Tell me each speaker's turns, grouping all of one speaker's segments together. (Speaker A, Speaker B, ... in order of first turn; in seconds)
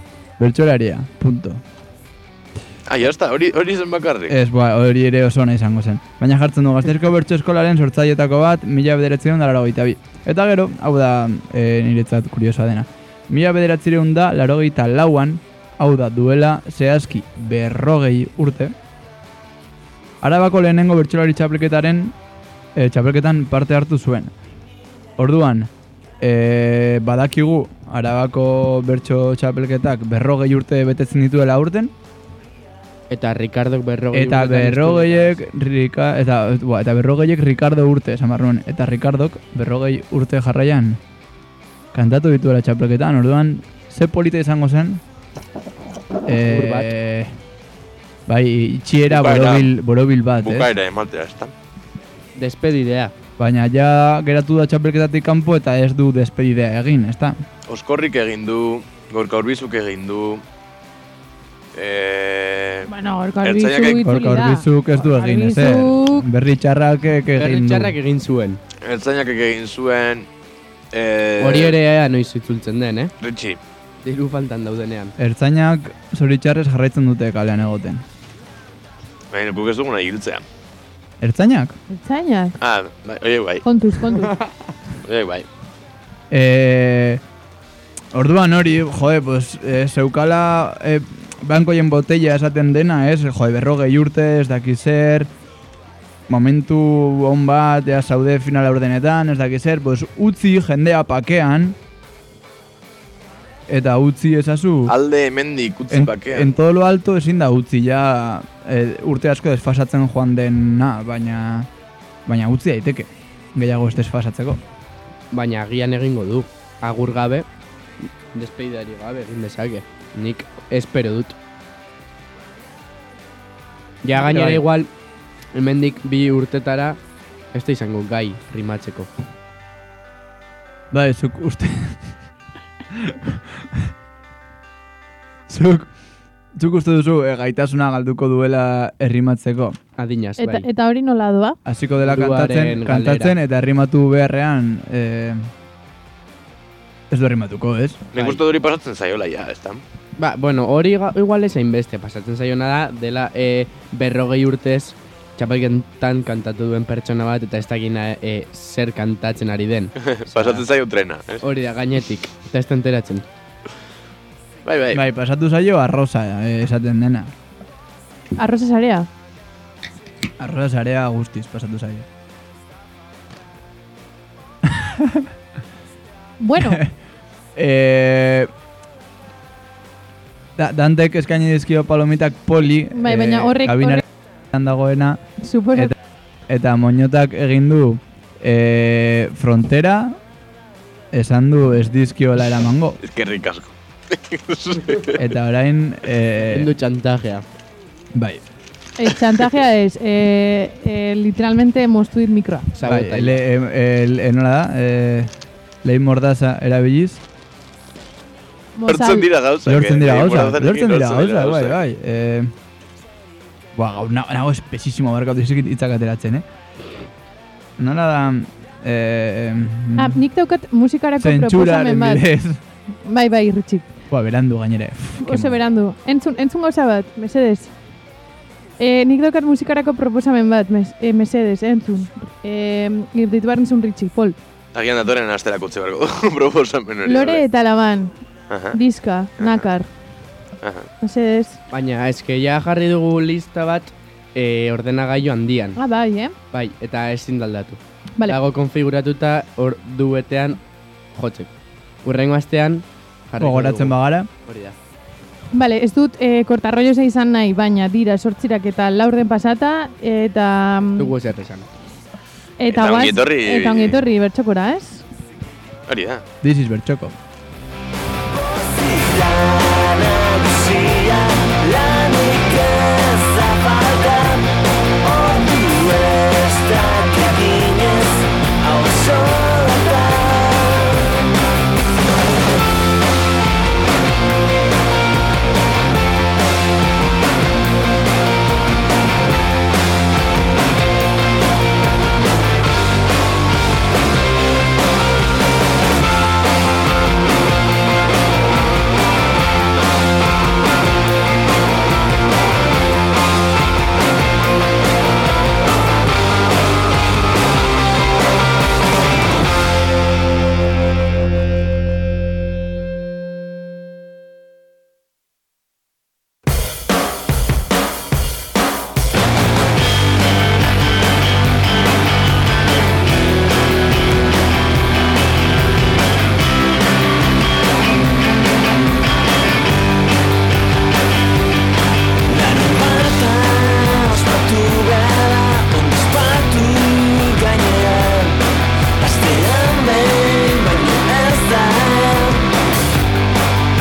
Speaker A: 0.4-1.6, 4.3-18.7, 20.2-22.1, 22.8-24.3, 25.2-25.7, 26.2-31.9, 34.1-41.0, 41.9-45.0, 46.3-47.3, 48.3-50.7, 53.4-57.4, 64.0-68.0, 75.2-78.0, 81.2-81.8, 86.3-87.2, 88.1-95.3, 96.3-101.8, 103.7-105.0, 105.9-111.7, 112.3-114.6, 124.1-124.6, 130.9-132.0, 132.9-133.9, 135.5-135.9, 136.6-139.8, 141.7-145.5, 147.1-148.1, 164.9-167.3, 170.4-172.1, 174.6-175.3, 176.6-176.9, 177.6-178.5, 180.6-185.2, 186.5-190.2, 191.1-193.0, 195.2-196.7, 198.2-198.4, 202.8-205.3, 205.8-207.2, 209.7-212.5, 213.7-216.5, 217.8-220.2, 221.2-222.6, 224.1-225.6, 253.4-254.3, 266.4-267.2
Speaker B: 2.9-4.3, 49.1-49.7, 50.4-51.5, 57.7-60.4, 61.8-62.9, 63.4-64.0, 68.8-70.3, 70.9-71.8, 73.2-73.6, 79.3-80.4, 82.6-83.6, 85.0-85.5, 104.9-106.5, 148.1-149.8, 160.0-161.4, 164.7-165.0, 193.0-195.2, 208.9-211.8, 234.7-237.4, 238.5-238.8, 239.4-239.7, 240.6-240.9, 262.7-264.0, 265.9-266.2
Speaker C: 33.1-35.4, 46.4-46.9, 52.4-53.1, 67.4-68.6, 71.4-73.1, 74.0-75.1, 115.3-117.5, 118.3-121.3, 124.0-124.9, 125.5-127.0, 127.5-129.1, 140.0-140.7, 142.0-143.3, 150.2-160.7, 161.4-163.3, 196.5-197.4, 202.8-203.4, 241.7-245.8, 246.5-250.6, 251.2-251.5, 252.0-254.8, 261.0-261.7
Speaker D: 62.9-66.3, 81.9-82.5, 83.7-84.3, 140.4-141.6, 168.4-169.1, 176.4-176.8, 182.9-184.0, 185.4-185.9, 199.0-202.7, 208.8-209.3, 220.0-222.2, 223.1-223.9, 225.2-227.7, 228.8-234.4, 237.1-238.1, 238.7-239.9, 241.0-241.6, 245.8-246.3, 255.5-261.1, 262.6-265.1
Speaker E: 268.6-274.4, 275.0-280.8, 332.4-338.3, 339.0-342.4